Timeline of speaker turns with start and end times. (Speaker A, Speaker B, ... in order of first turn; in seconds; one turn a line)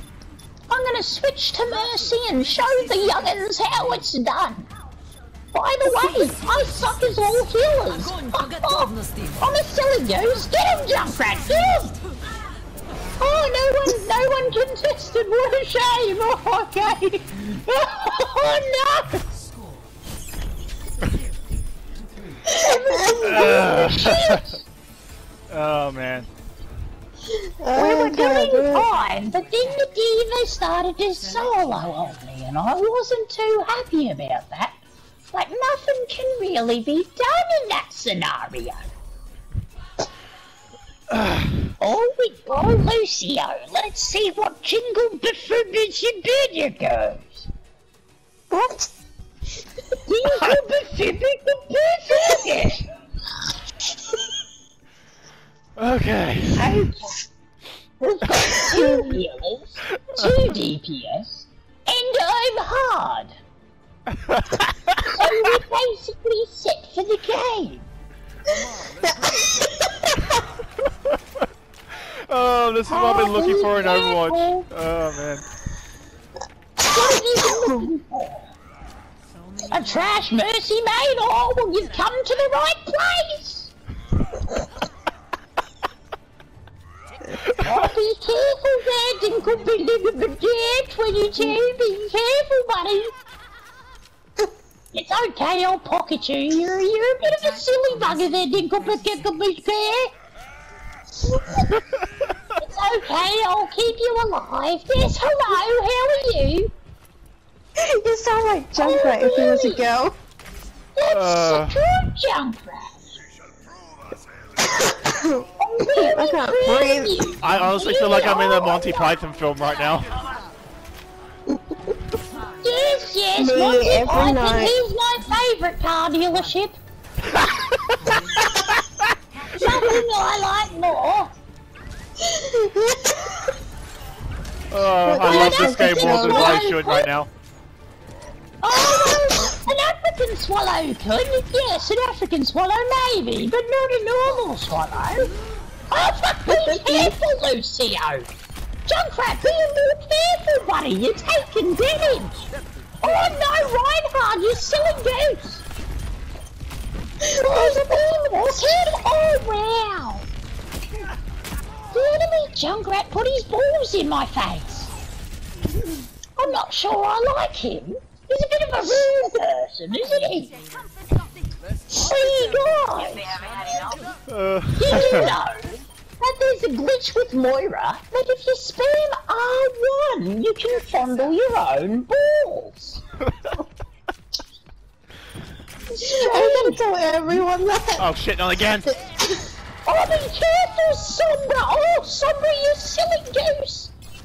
Speaker A: 0.7-4.7
Speaker A: 5.5-12.0
Speaker A: 13.2-19.2
Speaker A: 22.6-24.6
Speaker B: 22.6-23.8
Speaker C: 23.2-24.5
Speaker C: 25.5-26.3
Speaker B: 27.6-28.9
Speaker A: 27.8-34.8
Speaker A: 35.3-38.9
Speaker C: 41.1-41.5
Speaker A: 41.8-47.5
Speaker B: 48.5-48.9
Speaker A: 50.0-52.8
Speaker C: 55.8-56.7
Speaker A: 56.6-57.2
Speaker A: 58.0-63.4
Speaker C: 64.1-65.0
Speaker A: 65.0-67.9
Speaker C: 72.0-75.4
Speaker A: 72.9-74.7
Speaker A: 76.8-78.5
Speaker B: 77.6-77.9
Speaker A: 79.7-83.7
Speaker A: 87.5-93.1
Speaker A: 94.9-100.1
Speaker A: 102.6-106.7
Speaker B: 107.8-110.2
Speaker A: 108.8-109.9
Speaker A: 111.0-113.1
Speaker C: 111.1-111.8
Speaker B: 114.9-117.3
Speaker A: 115.6-119.1
Speaker C: 117.4-120.1
Speaker A: 122.6-126.8
Speaker B: 123.4-124.8
Speaker A: 129.5-131.3
Speaker B: 132.2-133.3
Speaker C: 134.7-137.3
Speaker B: 135.0-136.6
Speaker A: 135.3-137.1
Speaker A: 138.6-145.3
Speaker A: 145.9-148.3
Speaker B: 146.5-147.1
Speaker A: 148.9-152.5
Speaker A: 153.0-155.6
Speaker A: 157.3-160.3
Speaker A: 161.9-164.9
Speaker A: 166.4-170.6
Speaker A: 171.9-173.4
Speaker C: 174.3-175.3
Speaker A: 174.8-183.0
Speaker A: 186.0-186.8
Speaker B: 186.1-188.1
Speaker C: 188.0-188.9
Speaker A: 189.9-193.9